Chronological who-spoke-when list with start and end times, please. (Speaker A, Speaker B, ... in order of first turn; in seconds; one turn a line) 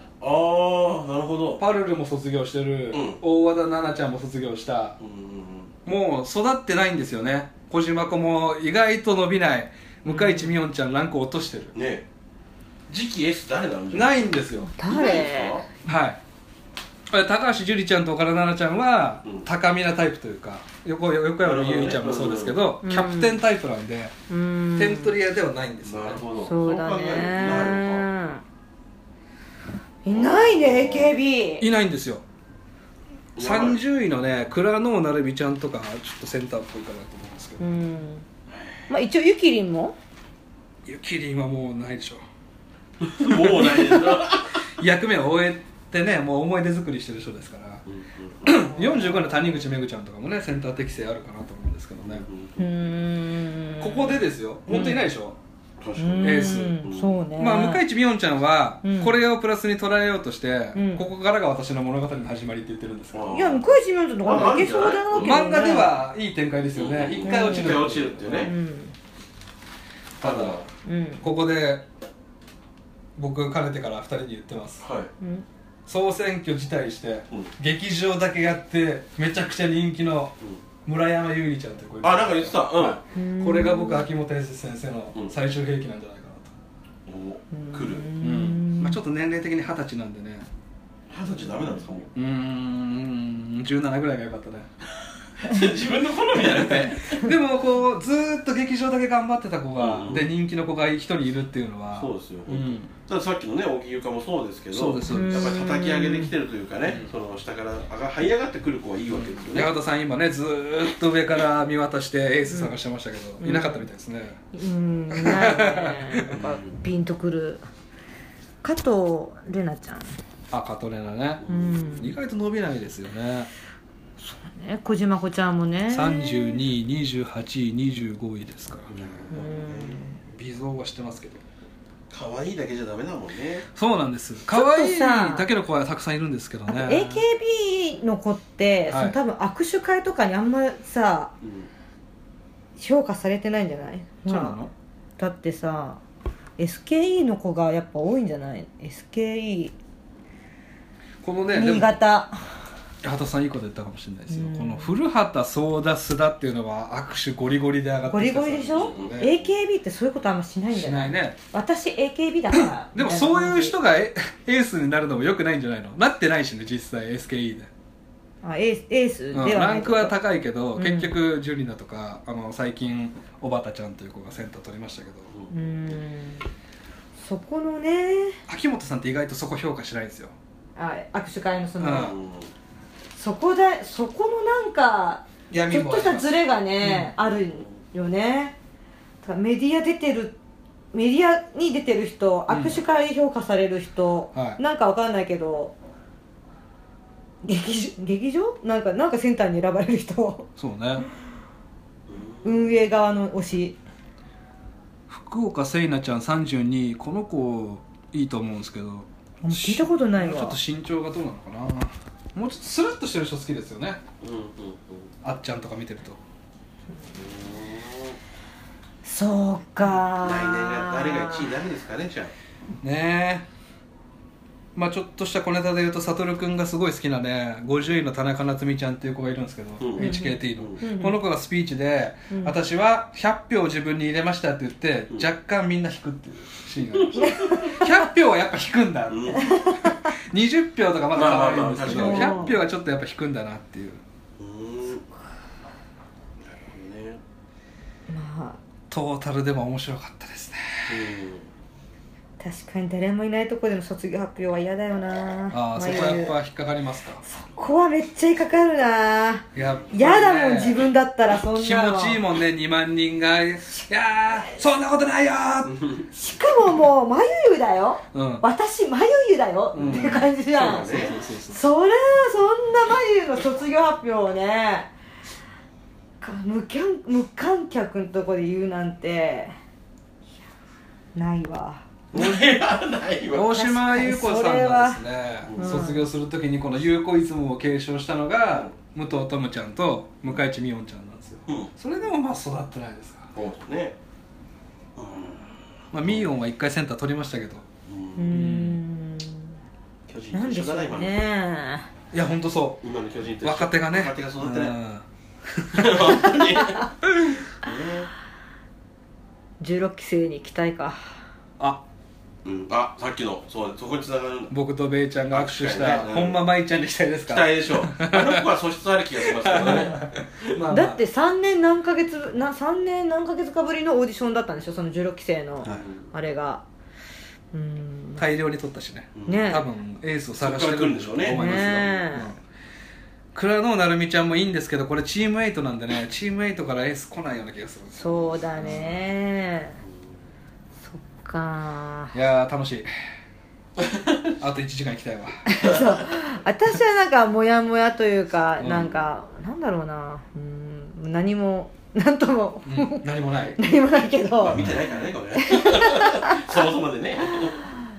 Speaker A: 0.2-1.6
Speaker B: 1.6-5.0
Speaker A: 2.9-3.2
Speaker A: 5.0-5.7
Speaker B: 5.8-11.7
Speaker C: 10.1-10.5
Speaker A: 11.7-12.0
Speaker A: 12.9-14.2
Speaker B: 13.9-14.7
Speaker C: 14.7-15.6
Speaker A: 14.9-15.7
Speaker B: 15.8-16.2
Speaker B: 17.1-24.1
Speaker A: 21.4-22.6
Speaker C: 22.8-23.4
Speaker C: 24.3-25.1
Speaker B: 24.8-26.2
Speaker A: 25.8-28.1
Speaker C: 26.4-28.4
Speaker C: 30.0-31.6
Speaker A: 30.1-31.1
Speaker B: 31.6-32.2
Speaker A: 33.4-33.8
Speaker B: 33.4-37.6
Speaker C: 37.6-38.2
Speaker C: 38.9-40.0
Speaker B: 40.8-42.2
Speaker A: 43.0-44.5
Speaker B: 43.2-47.8
Speaker A: 47.9-48.5
Speaker B: 48.4-52.3
Speaker C: 48.7-49.4
Speaker A: 52.0-52.7
Speaker C: 52.6-55.1
Speaker B: 53.8-55.4
Speaker A: 55.8-57.2
Speaker C: 56.0-57.8
Speaker B: 56.2-56.8
Speaker B: 57.4-63.4
Speaker C: 58.8-59.1
Speaker C: 60.7-61.0
Speaker A: 63.1-63.6
Speaker C: 63.3-65.9
Speaker A: 64.2-65.5
Speaker B: 65.1-68.5
Speaker A: 66.7-68.5
Speaker C: 67.2-68.9
Speaker A: 70.2-70.7
Speaker B: 70.2-70.7
Speaker C: 70.8-71.2
Speaker B: 71.2-71.8
Speaker B: 73.2-74.8
Speaker A: 74.8-75.1
Speaker C: 75.2-75.5
Speaker B: 75.9-80.3
Speaker B: 80.8-86.5
Speaker A: 82.0-83.0
Speaker C: 83.1-84.1
Speaker A: 87.1-88.1
Speaker C: 87.5-89.0
Speaker B: 88.2-90.5
Speaker A: 91.1-92.1
Speaker B: 92.1-94.7
Speaker A: 95.4-97.3
Speaker B: 96.3-102.9
Speaker A: 99.8-100.3
Speaker A: 101.9-109.7
Speaker B: 104.7-105.6
Speaker C: 105.1-106.3
Speaker B: 106.8-107.1
Speaker B: 109.1-114.4
Speaker C: 112.5-112.8
Speaker C: 113.4-113.9
Speaker C: 114.5-117.6
Speaker B: 115.1-116.4
Speaker A: 116.3-116.8
Speaker C: 118.6-120.0
Speaker B: 120.5-123.5
Speaker A: 121.4-122.0
Speaker C: 121.5-122.2
Speaker C: 124.2-126.6
Speaker B: 125.9-129.2
Speaker A: 128.9-130.1
Speaker C: 129.3-130.2
Speaker B: 130.3-131.4
Speaker A: 132.1-133.7
Speaker B: 133.8-137.2
Speaker C: 134.5-135.5
Speaker C: 136.7-141.3
Speaker B: 138.9-139.2
Speaker A: 141.4-141.7
Speaker C: 142.8-144.6
Speaker B: 144.2-144.7
Speaker C: 145.2-146.0
Speaker C: 146.6-149.7
Speaker B: 151.2-151.9
Speaker C: 151.5-152.4
Speaker B: 153.0-159.3
Speaker C: 154.3-154.9
Speaker C: 158.1-163.8
Speaker A: 158.7-159.4
Speaker B: 160.7-161.4
Speaker B: 162.5-167.7
Speaker C: 168.4-170.2
Speaker B: 169.3-175.3
Speaker C: 170.7-171.1
Speaker C: 175.5-176.4
Speaker C: 177.2-178.4
Speaker B: 178.5-180.3
Speaker C: 180.8-182.2
Speaker B: 181.8-182.2
Speaker A: 181.9-182.5
Speaker C: 183.2-188.5
Speaker B: 185.5-187.1
Speaker C: 189.2-190.3
Speaker C: 190.9-195.7
Speaker B: 192.5-192.8
Speaker B: 194.3-194.6
Speaker C: 197.4-200.5
Speaker B: 200.6-201.0
Speaker A: 202.1-202.7
Speaker C: 202.4-203.8
Speaker B: 205.1-214.0
Speaker C: 209.4-210.6
Speaker A: 214.2-215.1
Speaker B: 215.2-216.2
Speaker A: 217.1-218.2
Speaker C: 219.0-221.5
Speaker A: 220.2-222.3
Speaker B: 222.8-223.4
Speaker B: 224.7-244.0
Speaker A: 229.8-230.8
Speaker C: 230.0-231.2
Speaker C: 232.3-232.5
Speaker A: 236.9-237.7
Speaker C: 237.2-237.9
Speaker A: 239.1-239.5
Speaker C: 239.3-240.1
Speaker A: 241.1-242.5
Speaker C: 241.8-242.6
Speaker A: 244.4-245.0
Speaker A: 246.4-247.2
Speaker C: 248.1-248.6
Speaker B: 248.9-251.0
Speaker A: 250.9-251.5
Speaker C: 252.4-256.3
Speaker B: 255.5-257.2
Speaker C: 257.2-262.2
Speaker B: 259.5-260.9
Speaker B: 261.4-265.7
Speaker A: 265.6-266.0
Speaker C: 266.1-274.9
Speaker B: 268.1-268.4
Speaker B: 269.7-271.6
Speaker A: 270.5-271.1
Speaker C: 276.2-279.5
Speaker C: 281.1-281.8
Speaker B: 282.1-282.6
Speaker A: 282.1-283.6
Speaker B: 283.3-293.3
Speaker C: 283.5-285.0
Speaker A: 285.4-285.8
Speaker C: 285.6-286.1
Speaker A: 291.5-291.7
Speaker A: 293.3-293.9
Speaker A: 295.0-296.3
Speaker B: 295.9-297.6
Speaker A: 297.9-298.4
Speaker C: 298.1-299.5
Speaker B: 298.3-298.8
Speaker A: 300.1-301.1
Speaker C: 300.3-301.9
Speaker B: 302.1-302.8
Speaker A: 302.8-304.8
Speaker B: 303.4-305.0
Speaker B: 305.6-306.4
Speaker A: 305.7-306.9
Speaker A: 307.5-308.1
Speaker C: 309.6-311.2
Speaker A: 312.4-314.5
Speaker B: 314.5-318.5
Speaker A: 315.3-316.4
Speaker A: 317.3-320.0
Speaker B: 319.2-321.0
Speaker C: 320.7-326.6
Speaker A: 325.6-326.1
Speaker C: 327.5-328.3
Speaker B: 328.2-332.4
Speaker A: 329.1-329.6
Speaker C: 329.3-329.6
Speaker A: 330.4-332.0
Speaker C: 331.3-332.3
Speaker B: 333.3-338.9
Speaker C: 337.9-339.8
Speaker A: 338.6-338.9
Speaker C: 340.9-342.1
Speaker B: 342.1-342.9
Speaker A: 343.8-344.2
Speaker B: 344.4-345.4
Speaker C: 345.5-354.6
Speaker B: 348.6-348.9
Speaker B: 352.6-353.6
Speaker A: 354.4-357.6
Speaker C: 355.4-356.5
Speaker C: 357.3-357.7